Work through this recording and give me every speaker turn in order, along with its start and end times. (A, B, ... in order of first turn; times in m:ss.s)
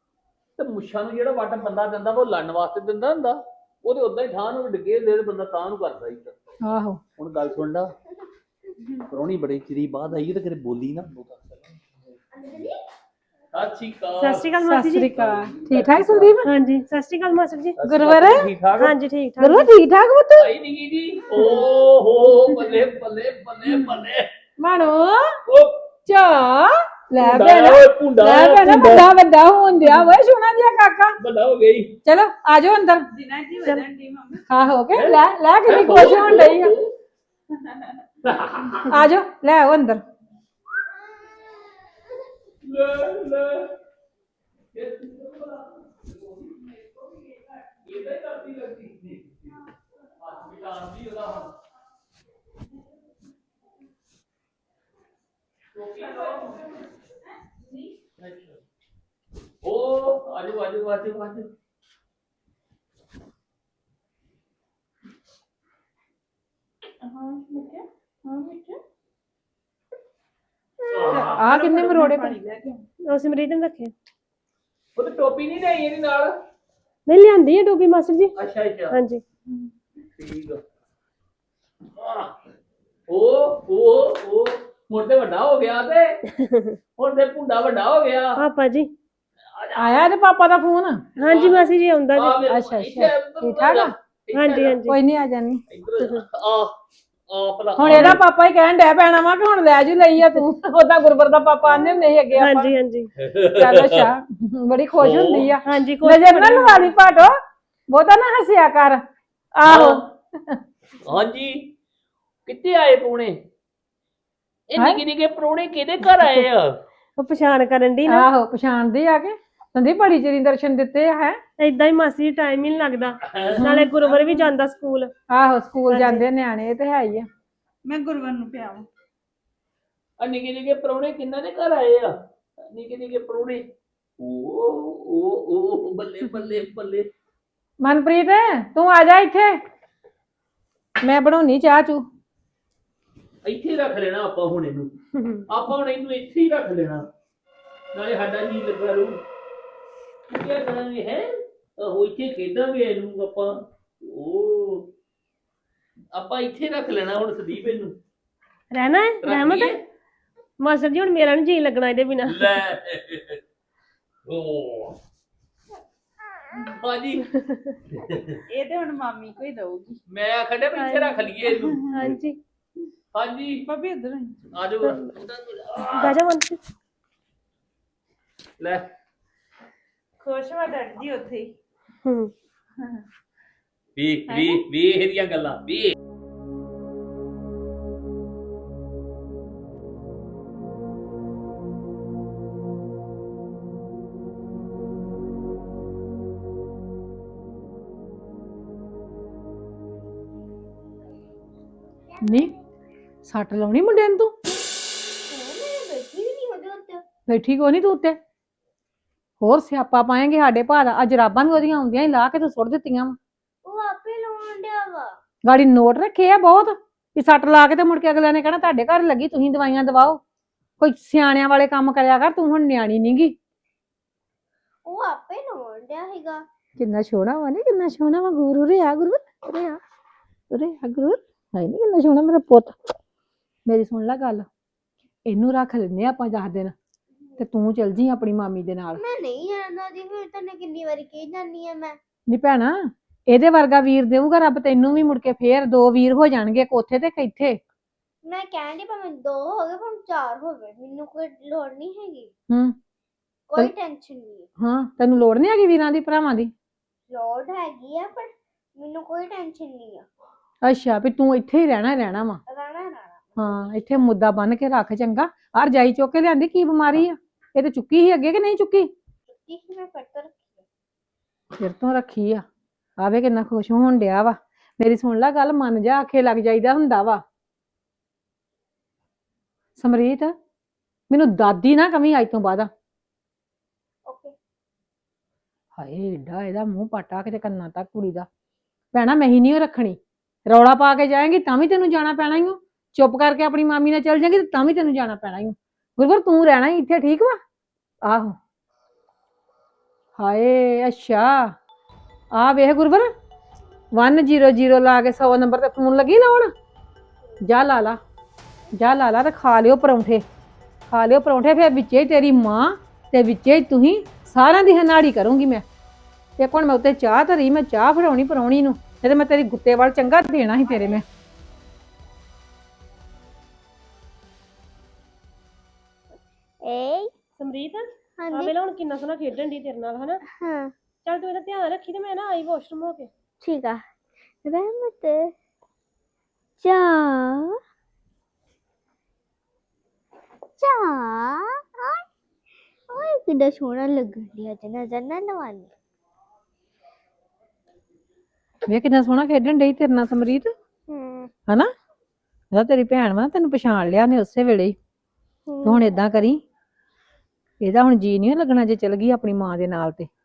0:00.6-0:06.4 A
0:06.6-0:07.0 B
0:07.2-0:07.9 A
0:09.1-0:11.9 A
0:12.4-0:12.8 C
0:13.5-0:14.5 A
0:14.2-0:15.1 D
0:14.6-0:16.5 B
0:15.1-0:16.4 A
0:16.4-0:17.8 D
0:17.8-0:18.9 A
0:17.8-0:18.5 B
0:18.8-0:19.7 D
0:19.4-0:20.5 B
0:20.4-0:24.3 A
0:24.6-0:25.4 B
0:25.5-0:25.8 A
0:26.1-0:31.2 B
0:27.2-0:29.1 A
0:31.2-0:31.9 A
0:32.0-0:33.1 B
0:33.1-0:34.4 E
0:34.5-0:36.7 B
0:34.9-0:36.9 A
0:37.5-0:38.0 E
0:38.2-0:39.1 A
0:38.9-0:40.0 B
0:42.6-0:43.7 A
0:44.7-0:49.6 A
0:50.2-0:51.5 A
0:55.8-0:56.6 A
0:56.1-0:56.7 E
0:58.2-0:58.6 A
0:59.6-1:01.5 A
1:07.0-1:08.8 E
1:10.9-1:12.8 E
1:10.9-1:11.4 A
1:11.2-1:12.3 B
1:13.1-1:13.9 D
1:15.0-1:16.4 A
1:17.1-1:18.3 D
1:18.4-1:19.0 A
1:18.9-1:19.2 D
1:20.2-1:20.6 A
1:22.0-1:22.3 A
1:23.1-1:26.2 A
1:26.3-1:26.8 D
1:27.0-1:28.4 A
1:28.4-1:28.9 D
1:29.5-1:30.0 A
1:29.8-1:31.0 B
1:31.2-1:32.4 D
1:31.3-1:34.8 A
1:32.5-1:33.9 B
1:34.3-1:35.0 D
1:34.9-1:35.6 B
1:35.7-1:36.7 A
1:36.0-1:36.3 D
1:37.3-1:38.2 A
1:37.8-1:42.7 B
1:37.8-1:38.2 D
1:42.4-1:43.1 D
1:43.2-1:44.1 A
1:43.4-1:49.0 B
1:45.0-1:45.6 A
1:45.7-1:46.9 D
1:49.6-1:50.6 B
1:49.7-1:50.0 A
1:51.0-1:51.7 A
1:52.5-1:53.4 A
1:54.7-1:56.8 A
1:56.0-1:56.4 B
1:57.2-1:58.3 D
1:58.1-2:01.4 B
2:01.6-2:05.1 D
2:03.3-2:03.6 A
2:05.3-2:07.3 B
2:05.9-2:06.2 D
2:07.9-2:08.9 E
2:10.2-2:13.7 A
2:14.2-2:17.1 A
2:17.8-2:19.6 B
2:21.0-2:22.0 B
2:23.4-2:24.9 A
2:25.5-2:27.1 A
2:27.9-2:29.2 A
2:30.3-2:34.9 A
2:36.1-2:38.0 A
2:38.7-2:39.8 D
2:39.2-2:39.8 A
2:40.6-2:42.6 D
2:42.3-2:43.4 A
2:44.3-2:45.0 A
2:46.8-2:47.3 A
2:47.3-2:47.7 D
2:47.9-2:48.4 A
2:48.5-2:50.0 E
2:50.1-2:52.2 A
2:50.8-2:51.4 D
2:51.5-2:51.9 E
2:51.9-2:52.4 D
2:53.1-2:53.7 A
2:53.7-2:54.5 E
2:54.5-2:56.2 A
2:55.9-2:56.6 D
2:58.6-2:58.9 A
3:00.2-3:01.5 E
3:02.0-3:02.3 D
3:02.8-3:03.0 E
3:04.0-3:06.0 A
3:04.3-3:04.6 E
3:22.2-3:22.5 B
3:23.2-3:24.3 B
3:25.3-3:27.0 C
3:27.3-3:28.2 B
3:29.4-3:33.2 B
3:33.6-3:35.2 C
3:35.4-3:40.2 B
3:40.8-3:43.4 B
3:44.9-3:46.4 C
3:46.8-3:49.8 B
3:50.5-3:52.8 B
3:53.7-3:54.5 B
3:55.3-3:56.7 B
3:57.4-3:59.0 B
3:59.0-4:02.0 C
4:02.3-4:07.6 B
4:08.2-4:12.3 C
4:12.5-4:12.8 B
4:13.5-4:14.5 C
4:14.6-4:16.5 B
4:17.1-4:20.1 C
4:20.6-4:22.4 B
4:22.5-4:23.5 C
4:23.4-4:28.9 B
4:29.3-4:30.6 C
4:31.6-4:32.4 B
4:33.0-4:37.2 B
4:39.8-4:40.4 B
4:41.1-4:42.7 B
4:44.1-4:44.4 C
4:45.8-4:48.3 B
4:48.9-4:57.4 B
4:58.1-4:58.4 B
5:00.2-5:01.5 B
5:02.4-5:03.1 B
5:04.0-5:06.5 B
5:07.4-5:08.0 B
5:08.7-5:10.2 B
5:10.9-5:15.6 B
5:16.4-5:21.0 B
5:26.6-5:27.1 C
5:27.4-5:30.2 D
5:28.2-5:28.5 C
5:30.4-5:30.7 C
5:31.0-5:33.1 D
5:33.4-5:33.8 C
5:34.4-5:35.3 C
5:36.6-5:37.6 C
5:40.6-5:42.0 C
5:42.9-5:45.7 C
5:48.7-5:50.5 B
5:50.9-5:51.3 C
5:52.5-5:54.8 B
5:55.5-5:55.9 C
5:55.6-5:56.4 B
5:57.6-6:00.1 B